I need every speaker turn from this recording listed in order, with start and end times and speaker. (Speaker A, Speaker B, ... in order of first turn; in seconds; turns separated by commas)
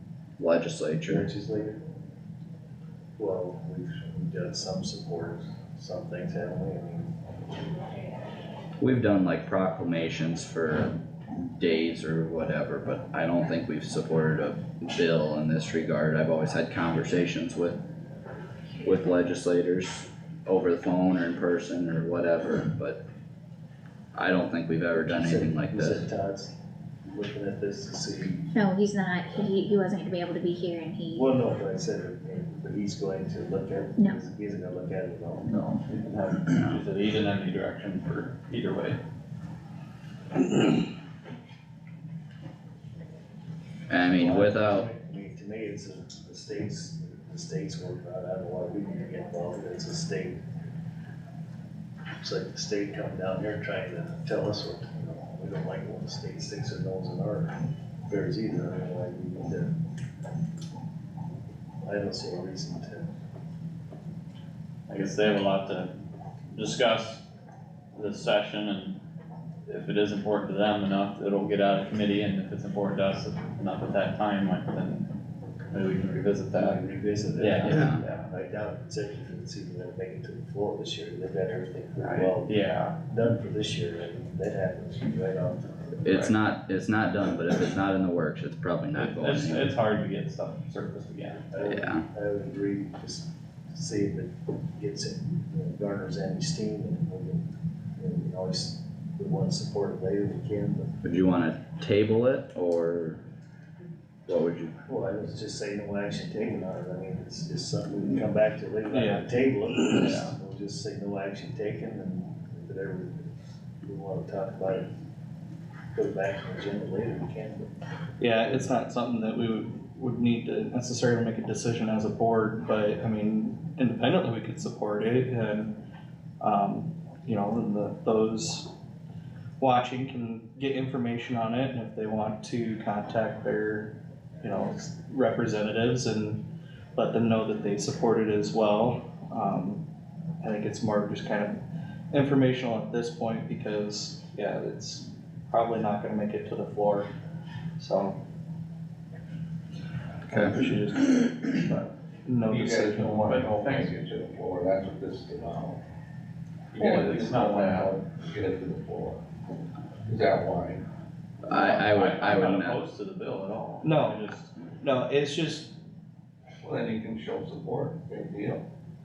Speaker A: 0.4-1.2, Speaker B: 1.1-1.8, Speaker B: 3.2-7.1, Speaker A: 8.8-17.8, Speaker A: 18.8-23.0, Speaker A: 24.1-26.0, Speaker B: 25.0-26.5, Speaker B: 27.1-28.5, Speaker C: 28.5-31.3, Speaker B: 31.1-35.5, Speaker D: 35.4-39.0, Speaker A: 43.9-44.9, Speaker B: 44.0-50.4, Speaker B: 52.2-59.7, Speaker B: 61.8-63.1, Speaker D: 64.9-65.9, Speaker D: 66.5-67.2, Speaker D: 67.9-69.0, Speaker D: 69.7-75.1, Speaker D: 75.7-76.8, Speaker B: 76.5-85.8, Speaker D: 77.3-78.3, Speaker A: 77.6-78.0, Speaker D: 82.0-83.0, Speaker A: 86.0-89.7, Speaker D: 86.1-86.3, Speaker D: 88.9-91.4, Speaker B: 91.5-97.4, Speaker A: 91.6-92.0, Speaker B: 98.0-100.9, Speaker A: 101.0-103.2, Speaker A: 104.3-104.7, Speaker B: 104.8-114.9, Speaker E: 108.9-109.2, Speaker E: 109.9-110.2, Speaker D: 110.0-110.3, Speaker B: 115.9-117.7, Speaker E: 118.2-125.7, Speaker E: 126.4-128.7, Speaker E: 129.6-136.4, Speaker E: 136.9-139.8, Speaker E: 140.4-141.6, Speaker E: 142.1-147.1, Speaker E: 147.8-148.2, Speaker E: 150.3-151.6, Speaker E: 152.3-153.4, Speaker F: 152.5-155.8, Speaker D: 153.3-153.9, Speaker D: 156.7-157.9, Speaker F: 156.8-159.2, Speaker F: 160.1-160.8, Speaker A: 161.4-162.8, Speaker D: 161.5-164.5, Speaker E: 163.8-164.2, Speaker E: 164.8-165.7, Speaker F: 166.6-168.6